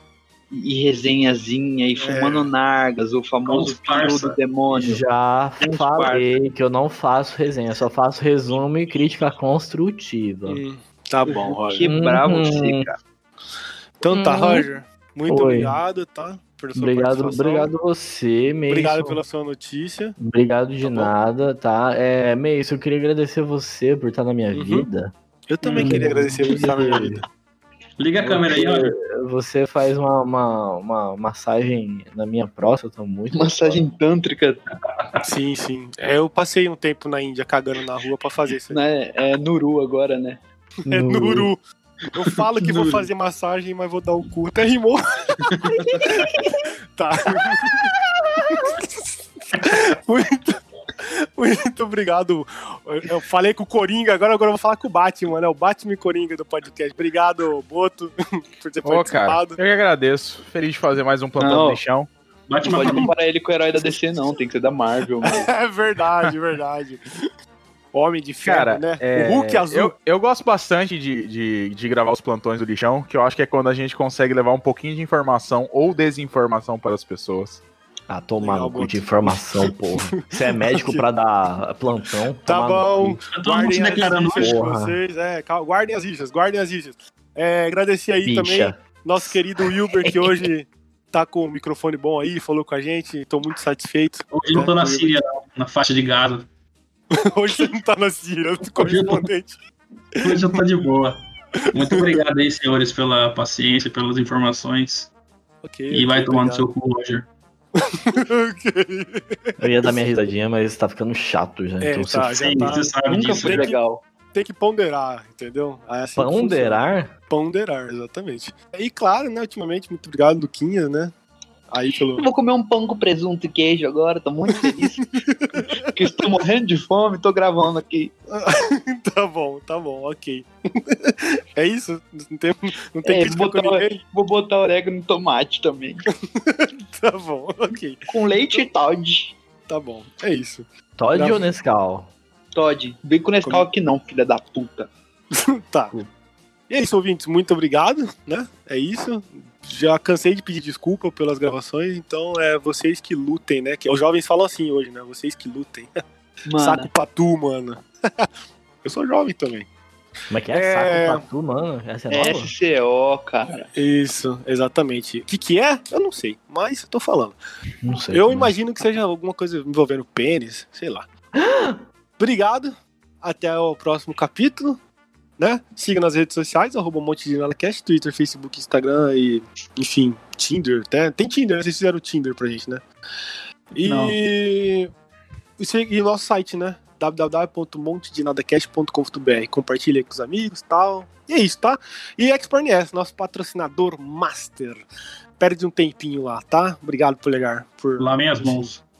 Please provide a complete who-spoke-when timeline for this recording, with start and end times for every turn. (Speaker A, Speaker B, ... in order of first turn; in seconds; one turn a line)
Speaker A: 0.5-5.0
Speaker B: 2.0-2.5
Speaker C: 3.5-4.4
Speaker D: 4.7-10.6
Speaker A: 5.7-6.3
Speaker B: 10.5-11.9
Speaker A: 11.2-12.9
Speaker D: 11.8-12.9
Speaker B: 14.0-17.7
Speaker D: 14.1-14.7
Speaker D: 15.3-15.8
Speaker D: 16.8-19.2
Speaker B: 18.7-20.2
Speaker D: 20.2-25.1
Speaker B: 20.8-21.1
Speaker B: 24.5-24.9
Speaker B: 25.5-27.2
Speaker D: 25.6-27.2
Speaker C: 25.8-26.1
Speaker C: 28.0-28.9
Speaker D: 28.2-33.8
Speaker A: 33.3-34.6
Speaker B: 35.2-38.8
Speaker A: 38.7-40.4
Speaker D: 40.9-41.5
Speaker B: 40.9-41.6
Speaker B: 42.1-48.0
Speaker A: 42.6-43.1
Speaker A: 45.5-46.1
Speaker B: 48.5-59.6
Speaker E: 58.9-62.1
Speaker A: 61.4-61.8
Speaker C: 62.5-63.1
Speaker A: 62.6-65.5
Speaker B: 65.2-67.1
Speaker B: 67.9-69.9
Speaker E: 68.5-77.6
Speaker D: 78.1-83.3
Speaker B: 78.4-81.1
Speaker B: 82.5-95.1
Speaker C: 83.3-84.6
Speaker D: 84.2-85.0
Speaker D: 88.2-90.5
Speaker C: 94.3-96.5
Speaker B: 97.1-99.6
Speaker C: 98.8-99.3
Speaker B: 100.2-100.6
Speaker C: 100.2-105.1
Speaker B: 101.8-102.2
Speaker B: 105.6-106.7
Speaker C: 105.9-107.3
Speaker B: 107.8-110.0
Speaker D: 109.6-112.8
Speaker B: 111.8-113.8
Speaker C: 112.4-113.7
Speaker A: 113.1-114.0
Speaker B: 114.3-121.1
Speaker D: 116.2-117.1
Speaker B: 121.7-122.3
Speaker A: 122.2-128.1
Speaker B: 124.6-125.8
Speaker B: 128.3-134.0
Speaker A: 133.1-136.1
Speaker B: 136.3-138.7
Speaker A: 138.1-139.3
Speaker B: 139.7-141.4
Speaker D: 141.0-142.1
Speaker A: 142.5-144.9
Speaker B: 145.4-145.9
Speaker B: 146.7-156.0
Speaker A: 156.5-156.9
Speaker B: 156.6-158.3
Speaker B: 158.8-159.7
Speaker D: 160.3-162.5
Speaker B: 160.5-161.2
Speaker A: 162.1-163.7
Speaker B: 163.8-167.4
Speaker D: 167.8-168.5
Speaker B: 168.1-171.1
Speaker D: 171.3-171.8
Speaker B: 172.2-174.8
Speaker B: 175.4-182.8
Speaker B: 183.8-184.9
Speaker C: 183.8-184.2
Speaker B: 185.6-194.8
Speaker B: 195.4-198.7
Speaker C: 198.0-198.8